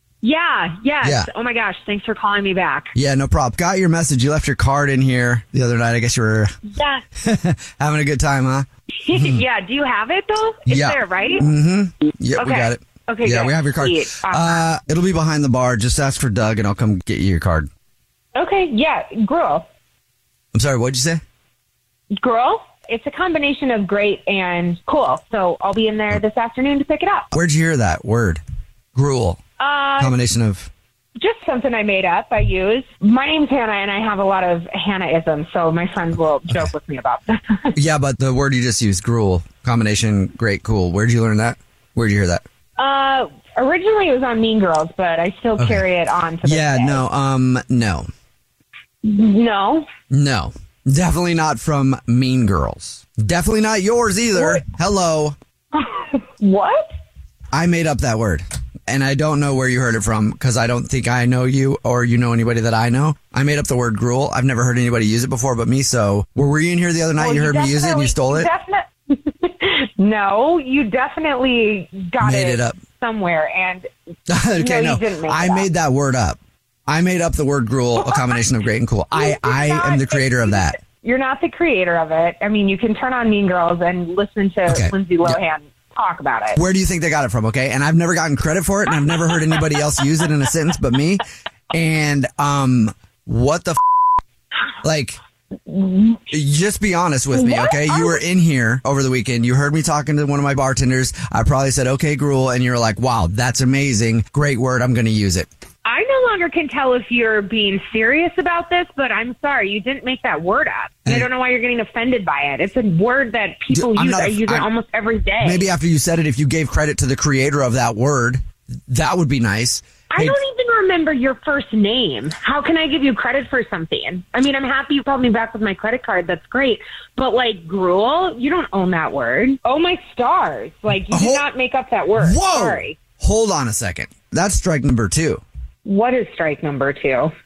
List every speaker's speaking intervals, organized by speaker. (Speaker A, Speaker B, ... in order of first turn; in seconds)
Speaker A: 0.2-2.9, 9.0-11.5, 12.4-14.6, 18.4-19.7, 22.1-27.3, 29.6-30.2, 31.2-37.7, 42.8-47.0, 49.0-49.9, 55.8-56.9, 67.2-73.9, 74.6-75.7, 79.1-86.6, 95.8-96.2, 105.8-115.6, 120.1-133.0, 135.8-137.3
Speaker B: 1.0-1.3, 3.0-6.5, 7.2-9.4, 10.7-17.7, 20.5-21.2, 27.3-28.4, 28.9-29.4, 30.0-30.7, 37.8-42.5, 45.6-45.9, 46.4-48.1, 50.1-55.4, 57.5-68.5, 72.2-72.8, 74.3-80.8, 84.7-85.4, 86.5-93.8, 94.8-95.2, 96.3-105.5, 113.7-114.7, 115.4-120.4, 131.1-131.5, 132.2-135.4